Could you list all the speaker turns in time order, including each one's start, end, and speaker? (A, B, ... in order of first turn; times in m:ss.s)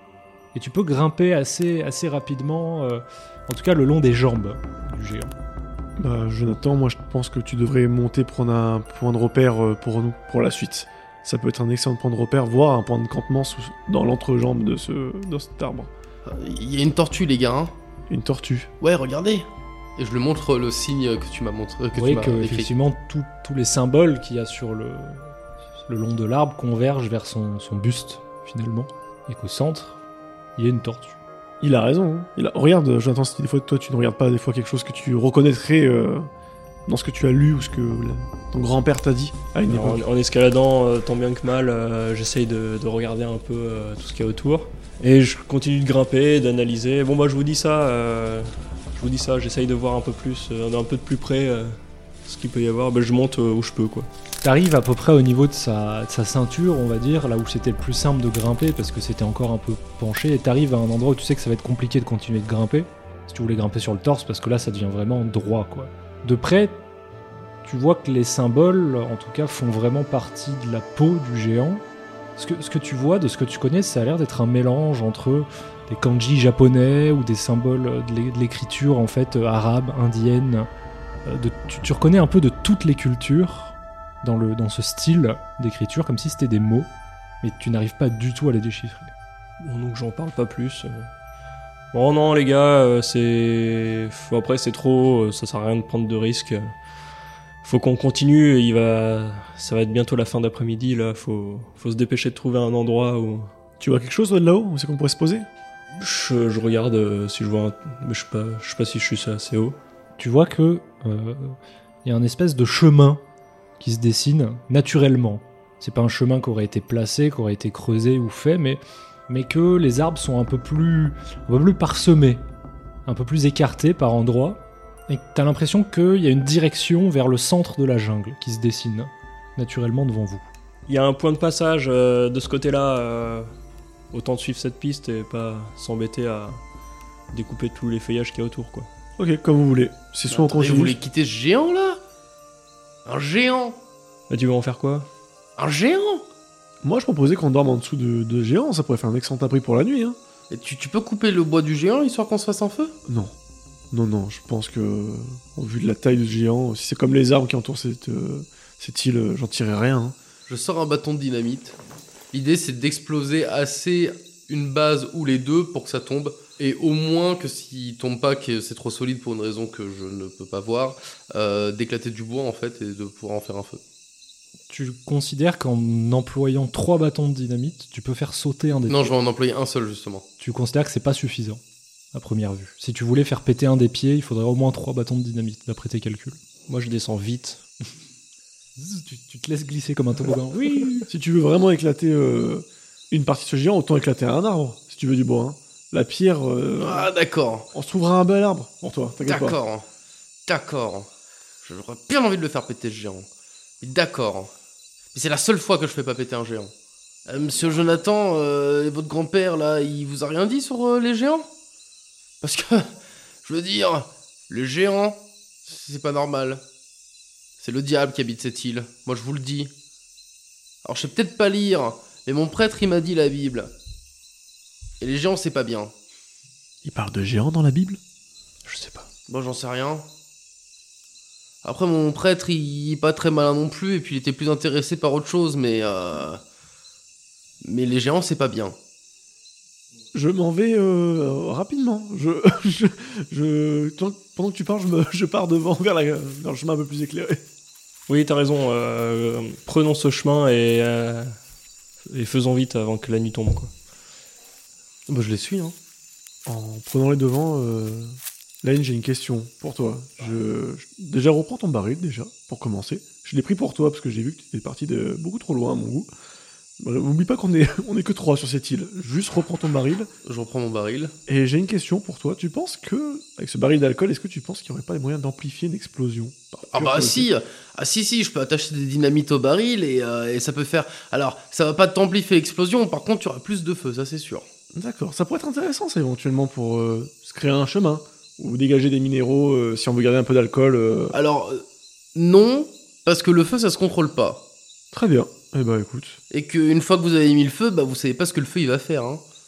0:00.5-0:05.3 A
0:06.0-0:15.9 B
0:16.2-0:17.7 C
0:18.1-0:18.7 B
0:18.8-0:22.7 C
0:21.9-0:25.3 A
0:25.9-0:30.0 A
0:30.6-0:31.2 A
0:31.6-0:36.3 B
0:36.9-0:40.0 B
0:39.7-0:54.1 D
0:54.4-1:06.8 A
1:07.6-1:11.8 A
1:12.4-1:20.7 A
1:21.2-1:26.9 A
1:27.4-1:29.1 A
1:29.6-1:31.1 D
1:31.9-1:36.7 D
1:37.6-1:43.5 D
1:43.8-1:45.5 B
1:46.0-1:49.8 D
1:50.2-1:53.2 A
1:53.8-2:02.4 A
2:03.0-2:10.5 A
2:10.9-2:13.5 D
2:14.1-2:16.6 D
2:17.3-2:18.9 D
2:19.2-2:21.0 B
2:20.3-2:22.0 C
2:23.0-2:23.8 C
2:24.3-2:25.1 D
2:25.6-2:26.2 C
2:26.8-2:30.2 B
2:30.5-2:32.9 C
2:33.1-2:33.3 B
2:33.9-2:40.2 B
2:40.5-2:41.8 C
2:42.3-2:53.8 C
2:54.7-2:59.1 A
2:58.9-3:00.2 C
3:00.4-3:01.6 A
3:02.1-3:06.4 A
3:06.7-3:07.6 D
3:08.8-3:11.1 A
3:11.1-3:17.1 B
3:16.8-3:17.7 C
3:17.7-3:19.6 B
3:19.3-3:19.8 C
3:20.4-3:21.1 C
3:21.6-3:23.3 C
3:23.8-3:24.5 C
3:25.1-3:26.7 C
3:27.3-3:31.5 C
3:32.4-3:32.9 C
3:33.4-3:36.6 C
3:37.6-3:39.7 C
3:40.8-3:43.7 C
3:45.0-3:45.9 C
3:46.8-3:48.0 B
3:48.6-3:49.1 D
3:49.3-3:50.0 C
3:51.6-3:56.4 C
3:57.6-3:58.8 C
4:00.1-4:07.4 B
4:08.1-4:11.4 D
4:12.1-4:13.7 D
4:15.1-4:15.8 C
4:16.4-4:26.1 B
4:26.8-4:30.1 B
4:30.2-4:31.1 C
4:31.3-4:37.3 B
4:36.7-4:44.5 C
4:44.7-4:51.2 B
4:51.1-4:51.6 C
4:52.1-4:54.4 C
4:54.9-4:56.2 B
4:56.3-4:59.2 C